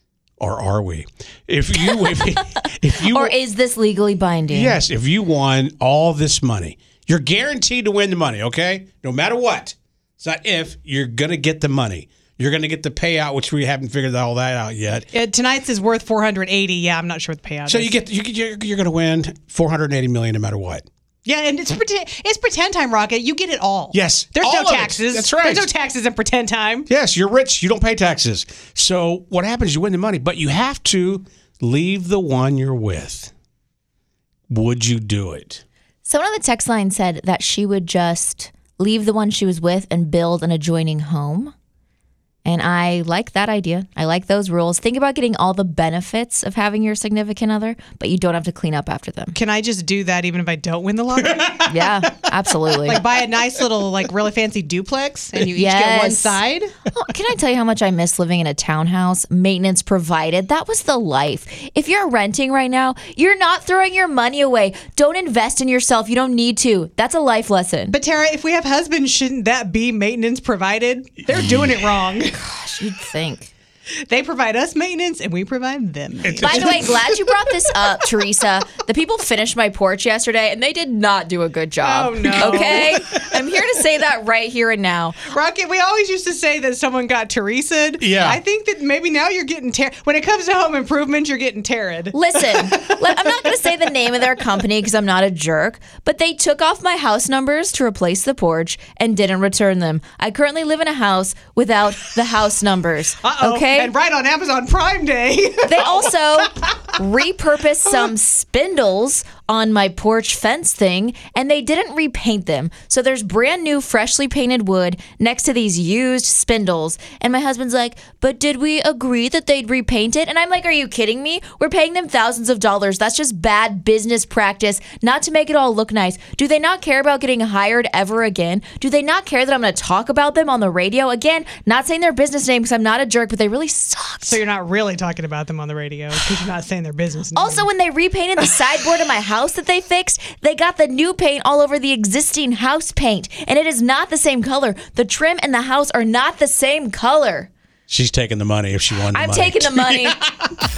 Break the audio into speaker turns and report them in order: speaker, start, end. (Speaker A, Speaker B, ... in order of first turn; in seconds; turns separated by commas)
Speaker A: 0.4-3.3, Speaker B: 3.1-4.8, Speaker A: 4.5-15.1, Speaker C: 15.1-17.9, Speaker A: 17.7-20.9, Speaker C: 21.2-26.9, Speaker A: 23.9-25.7, Speaker A: 26.9-33.3, Speaker A: 34.5-35.6, Speaker B: 36.0-41.5, Speaker B: 42.5-49.4, Speaker C: 49.3-51.6, Speaker A: 51.2-52.1, Speaker B: 51.7-53.0, Speaker C: 52.9-56.7, Speaker B: 55.5-56.4, Speaker B: 56.9-68.0, Speaker C: 67.9-72.3, Speaker A: 71.3-71.7, Speaker B: 72.3-73.5, Speaker C: 74.1-76.8, Speaker A: 76.2-77.2, Speaker B: 76.4-85.3, Speaker C: 81.8-83.1, Speaker C: 85.3-92.9, Speaker A: 88.0-88.4, Speaker B: 92.1-103.9, Speaker C: 103.2-106.9, Speaker B: 105.6-134.4, Speaker C: 134.2-137.7, Speaker B: 137.3-147.5, Speaker A: 147.9-150.4, Speaker B: 149.1-150.2